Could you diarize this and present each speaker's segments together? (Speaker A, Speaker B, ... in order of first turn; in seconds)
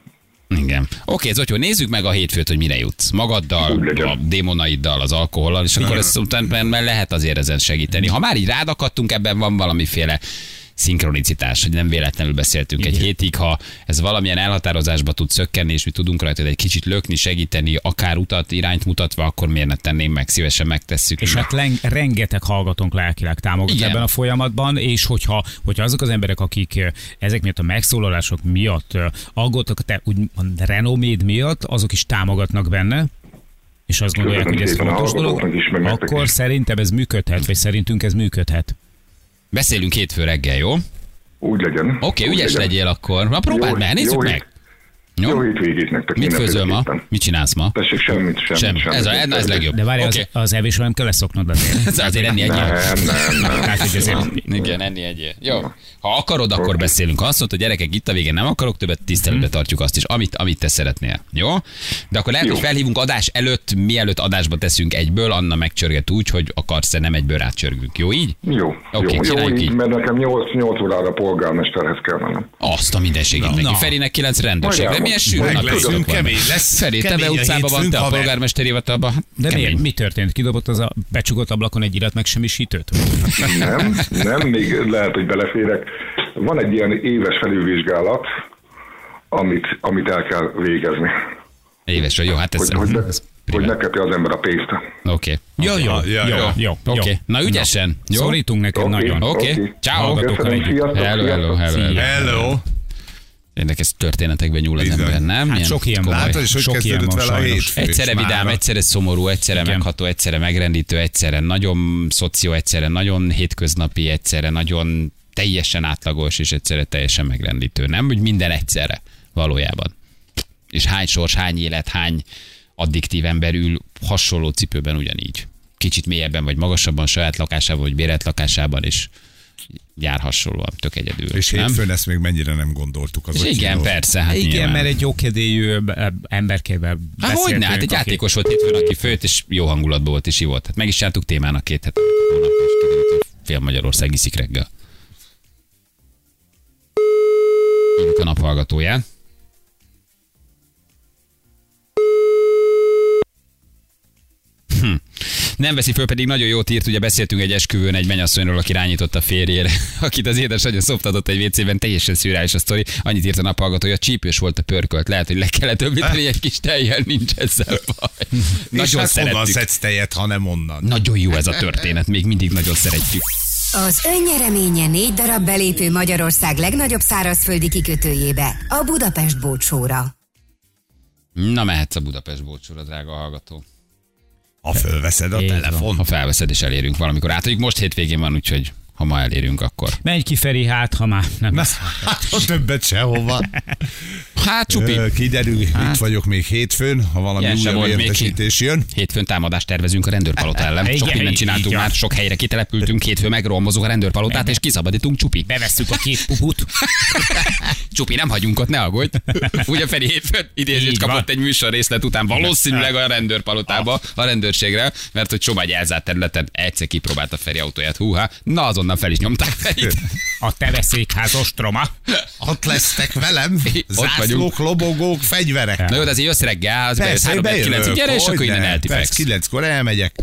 Speaker A: 0.5-10.2, 10.8-21.5, 23.7-24.1, 39.5-40.8, 42.0-44.4, 45.2-45.4, 46.1-47.8, 48.5-50.3, 51.7-68.4, 68.9-69.7, 72.6-79.8, 91.9-93.7, 95.0-98.4, 99.2-100.2, 100.9-102.1, 103.5-105.8, 107.8-119.9, 120.7-122.2, 122.8-129.1, 130.0-131.8, 133.3-134.9, 137.2-144.7, 148.0-149.0, 154.7-169.7, 170.8-173.2, 181.3-183.6, 186.0-190.0, 194.3-195.1, 197.4-198.4, 198.9-205.5, 206.8-220.1, 223.7-224.5, 225.8-229.2
Speaker B: 3.6-4.2, 34.1-36.3, 41.4-42.7, 43.5-44.4, 45.2-47.0, 47.7-49.6, 52.4-54.3, 62.4-62.7, 68.4-72.5, 74.6-76.1, 83.3-88.3, 89.3-91.1, 92.6-94.8, 98.7-101.6
Speaker C: 21.2-33.1, 33.9-38.7, 49.7-54.4, 73.5-74.0, 79.4-83.5, 95.6-99.3, 99.8-100.8, 101.7-102.6, 105.5-107.7, 109.5-109.8, 134.3-138.2, 185.3-185.9, 190.0-192.4, 200.7-201.9, 204.3-204.6, 205.4-206.9, 210.7-211.2, 220.4-221.9, 225.8-226.1
Speaker D: 73.3-73.6, 75.3-78.3, 95.6-96.6, 101.9-102.6, 104.8-108.6, 131.3-133.9, 168.7-170.9, 184.6-186.0, 191.5-193.8, 194.7-198.9, 222.4-226.0, 227.0-230.1
Speaker E: 173.7-180.1